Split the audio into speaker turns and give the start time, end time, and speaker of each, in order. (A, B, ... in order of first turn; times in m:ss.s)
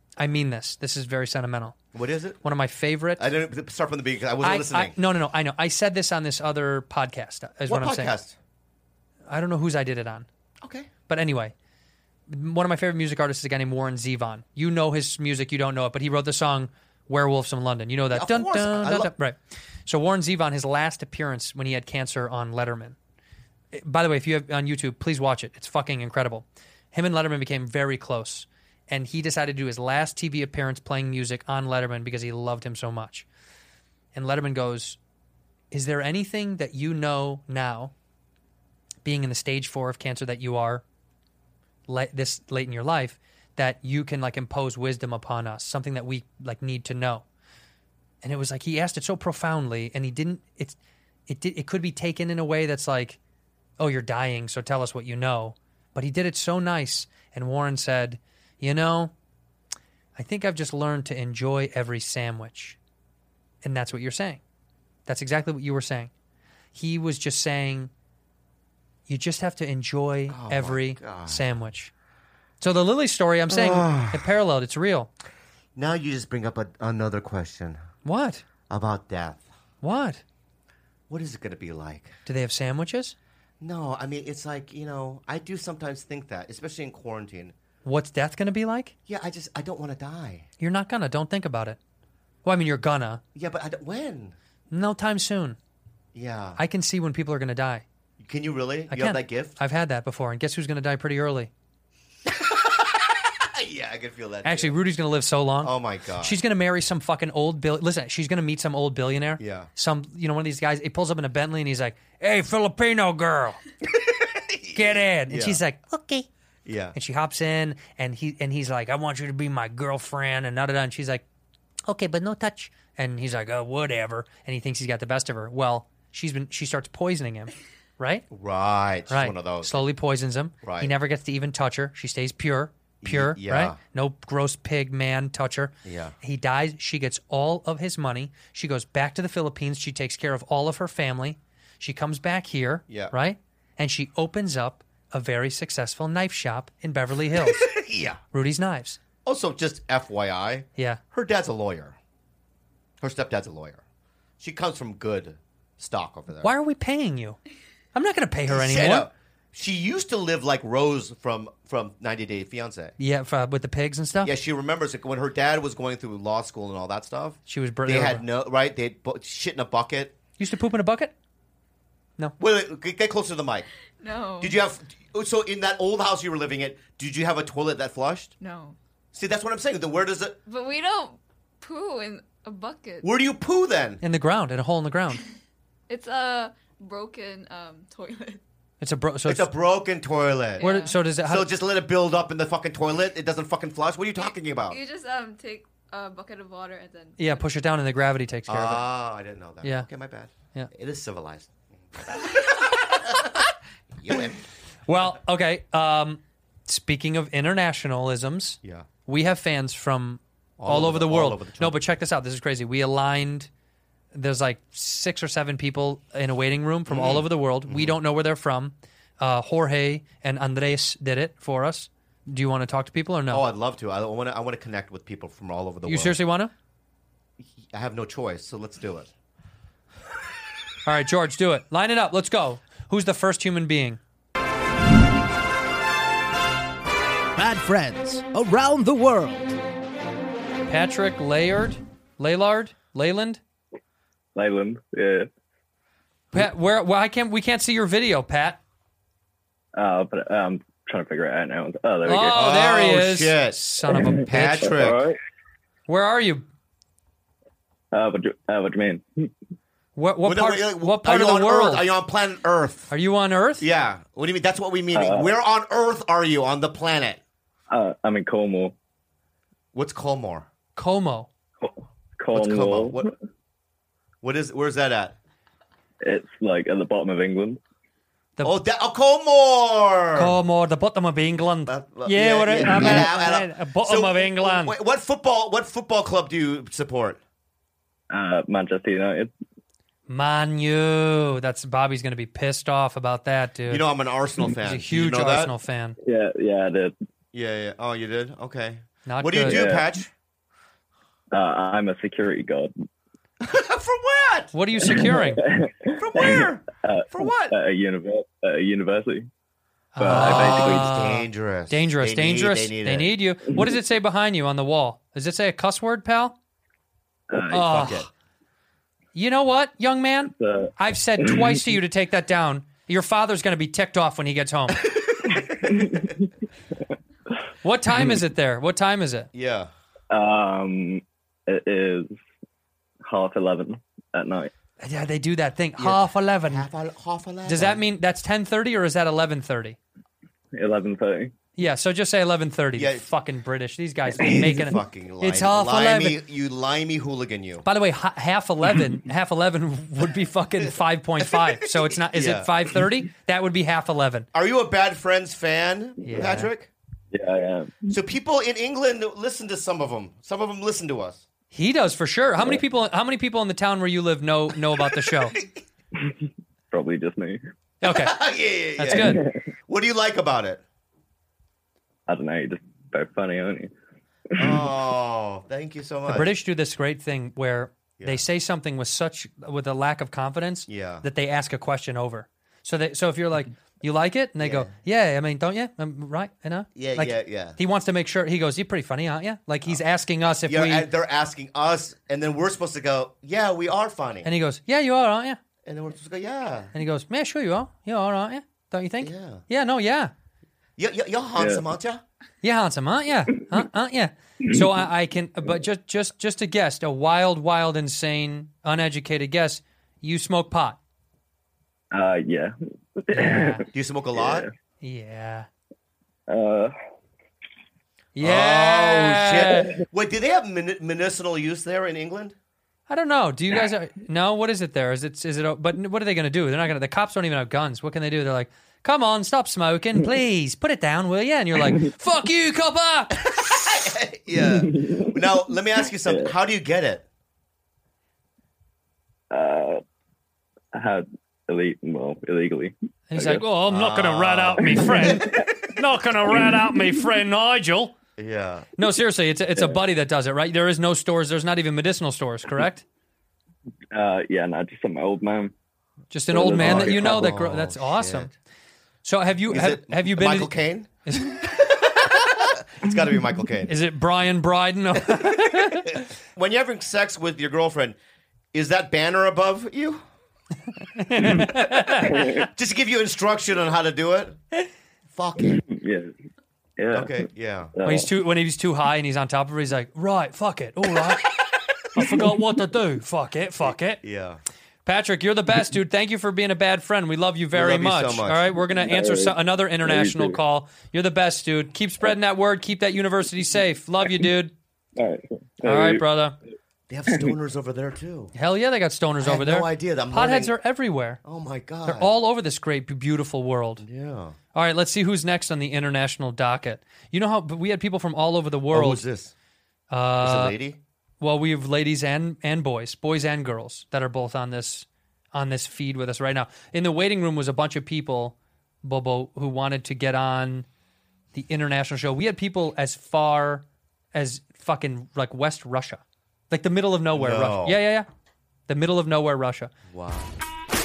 0:00.2-0:01.8 A
0:01.9-0:02.4 B
0:02.4-0:03.2 A
0:03.2-0:05.0 B
0:04.4-0:08.1 A
0:07.7-0:08.4 B
0:09.3-0:10.3 A
0:10.6-0:10.9 B
0:11.1-0:11.5 A
0:12.3-0:23.0 A
0:18.1-0:19.1 B
0:23.7-0:33.3 A
0:34.2-0:35.0 A
0:35.7-0:37.9 A
0:39.0-0:40.8 A
0:41.9-0:47.2 A
0:48.2-0:50.8 A
0:51.3-0:53.2 A
0:53.8-0:59.1 A
1:00.2-1:02.8 A
1:03.6-1:04.4 A
1:05.1-1:06.1 A
1:06.7-1:07.9 A
1:09.1-1:11.9 A
1:10.3-1:11.4 B
1:12.6-1:15.1 A
1:13.5-1:14.3 B
1:15.8-1:17.8 B
1:18.0-1:18.4 A
1:18.7-1:19.5 B
1:19.8-1:20.2 A
1:21.1-1:22.2 B
1:22.3-1:23.2 A
1:23.6-1:27.6 B
1:27.8-1:28.9 A
1:29.1-1:30.5 B
1:30.6-1:31.8 A
1:32.4-1:33.2 A
1:33.4-1:34.4 B
1:34.7-1:35.6 A
1:36.1-1:36.6 B
1:36.6-1:37.8 A
1:38.2-1:39.6 B
1:38.9-1:41.5 A
1:42.3-1:44.8 B
1:44.4-1:53.6 A
1:45.6-1:46.4 B
1:49.4-1:49.7 B
1:53.8-1:55.6 B
1:54.8-1:56.3 A
1:56.6-1:57.0 B
1:56.9-2:01.2 A
2:01.9-2:08.3 A
2:08.3-2:09.8 B
2:09.1-2:27.7 A
2:10.6-2:10.9 B
2:13.0-2:13.8 B
2:15.8-2:16.2 B
2:27.3-2:28.2 B
2:28.3-2:29.0 A
2:29.2-2:32.0 B
2:33.0-2:33.8 B
2:34.4-2:36.5 B
2:36.4-2:37.4 A
2:38.0-2:39.1 A
2:38.5-2:43.0 B
2:43.0-2:44.3 A
2:44.2-2:50.2 B
2:47.5-2:48.2 A
2:50.4-2:51.1 A
2:52.4-2:53.7 B
2:54.0-2:54.6 C
2:54.4-2:58.3 B
2:58.4-2:58.8 C
2:59.1-3:00.4 B
3:00.5-3:03.1 C
3:03.0-3:04.0 B
3:04.0-3:05.2 A
3:05.9-3:08.4 C
3:08.8-3:09.5 A
3:09.3-3:10.7 B
3:10.6-3:11.0 C
3:10.6-3:11.5 A
3:11.2-3:14.8 B
3:14.2-3:17.4 C
3:17.2-3:18.8 A
3:18.5-3:24.4 B
3:19.6-3:19.9 A
3:24.9-3:33.5 A
3:28.6-3:28.9 B
3:30.6-3:31.8 B
3:34.1-3:43.5 A
3:36.9-3:38.0 B
3:43.3-3:46.2 B
3:45.9-3:46.5 A
3:47.6-3:49.1 B
3:50.8-3:54.0 A
3:57.4-3:59.6 D
4:00.7-4:03.4 A
4:04.4-4:05.3 E
4:06.3-4:08.6 A
4:09.8-4:12.5 E
4:12.1-4:14.7 A
4:12.3-4:15.0 B
4:14.0-4:15.2 E
4:15.9-4:16.4 A
4:17.9-4:19.1 E
4:20.0-4:21.8 A
4:20.2-4:22.9 B
4:22.9-4:23.7 A
4:23.6-4:27.2 B
4:24.9-4:25.3 E
4:27.7-4:28.8 E
4:29.7-4:30.5 B
4:30.8-4:31.3 A
4:31.6-4:33.1 E
4:32.3-4:33.1 B
4:34.2-4:35.2 B
4:36.0-4:37.6 E
4:38.4-4:40.4 B
4:40.2-4:44.8 A
4:41.7-4:47.2 B
4:48.1-4:49.3 E
4:50.1-4:53.8 A
4:53.7-4:55.5 B
4:54.5-4:56.0 A
4:56.0-4:56.9 E
4:57.3-5:00.1 B
4:59.1-4:59.7 A
4:59.4-4:59.9 E
5:01.3-5:02.7 E
5:03.4-5:04.5 B
5:04.5-5:05.4 A
5:04.8-5:09.3 E
5:05.9-5:07.6 B
5:10.0-5:16.4 A
5:10.0-5:10.9 E
5:10.0-5:13.1 B
5:17.3-5:17.9 E
5:17.5-5:18.1 A
5:17.5-5:18.1 B
5:19.2-5:24.9 A
5:20.4-5:21.6 E
5:25.4-5:26.3 E
5:27.6-5:29.3 A
5:29.3-5:29.7 B
5:30.1-5:32.1 E
5:33.0-5:34.5 E
5:34.8-5:36.7 A
5:35.8-5:37.8 B
5:37.4-5:39.8 A
5:40.6-5:41.3 E
5:41.6-5:46.2 A
5:42.8-5:43.1 B
5:44.1-5:47.7 B
5:47.6-5:54.3 A
5:51.2-5:52.5 B
5:54.3-5:56.7 B
5:56.0-5:56.5 A
5:57.1-5:57.8 E
5:57.9-6:01.2 B
6:01.5-6:05.4 A
6:06.7-6:07.4 E
6:07.8-6:08.2 A
6:07.8-6:10.6 B
6:08.8-6:09.2 A
6:08.9-6:09.3 E
6:12.1-6:13.7 E
6:14.4-6:16.3 B
6:16.1-6:30.9 A
6:20.7-6:21.0 B
6:24.4-6:24.7 B
6:26.8-6:27.6 B
6:30.4-6:34.3 B
6:34.2-6:35.4 A
6:35.6-6:36.7 B
6:36.7-6:40.1 A
6:39.0-6:39.4 B
6:40.8-6:42.0 B
6:41.4-6:41.6 E
6:42.4-6:50.8 A
6:51.9-6:53.6 E
6:53.1-6:53.7 A
6:53.7-6:54.5 B
6:54.2-6:54.5 E
6:54.8-6:55.5 A
6:56.3-6:56.7 E
6:58.2-6:59.7 A
6:58.2-7:02.4 B
7:02.9-7:13.2 A
7:13.2-7:17.0 B
7:14.4-7:15.1 E
7:16.1-7:16.3 E
7:19.3-7:19.8 E
7:20.7-7:23.4 E
7:23.1-7:27.9 A
7:23.7-7:25.4 B
7:24.6-7:25.2 E
7:28.2-7:28.7 B
7:28.8-7:32.8 A
7:33.9-7:35.5 E
7:36.1-7:38.3 A
7:36.3-7:37.4 E
7:36.5-7:38.3 B
7:39.0-7:40.5 A
7:39.5-7:40.9 B
7:41.1-7:41.6 A
7:41.4-7:43.7 B
7:43.7-7:46.0 A
7:45.1-7:48.0 B
7:48.5-7:50.0 B
7:51.0-7:52.4 A
7:52.0-7:54.4 B
7:52.1-7:52.4 E
7:55.1-7:55.6 B
7:55.7-7:56.1 E
7:56.8-7:57.2 E
7:56.9-7:57.7 B
7:57.8-7:58.1 E
7:57.8-8:01.3 A
8:01.9-8:04.0 A
8:04.0-8:04.4 B
8:04.8-8:14.5 A
8:07.5-8:08.5 B
8:08.7-8:10.4 E
8:15.0-8:16.0 E
8:15.6-8:16.4 A
8:16.9-8:18.3 B
8:18.3-8:21.2 A
8:19.2-8:20.6 B
8:21.2-8:22.1 B
8:21.8-8:23.8 A
8:23.8-8:24.4 B
8:24.5-8:29.0 A
8:28.7-8:29.3 B
8:29.9-8:30.6 A
8:30.2-8:30.8 B
8:31.2-8:40.7 A
8:41.3-8:48.1 A
8:47.1-8:47.8 B
8:48.7-8:49.7 A
8:49.9-8:50.4 B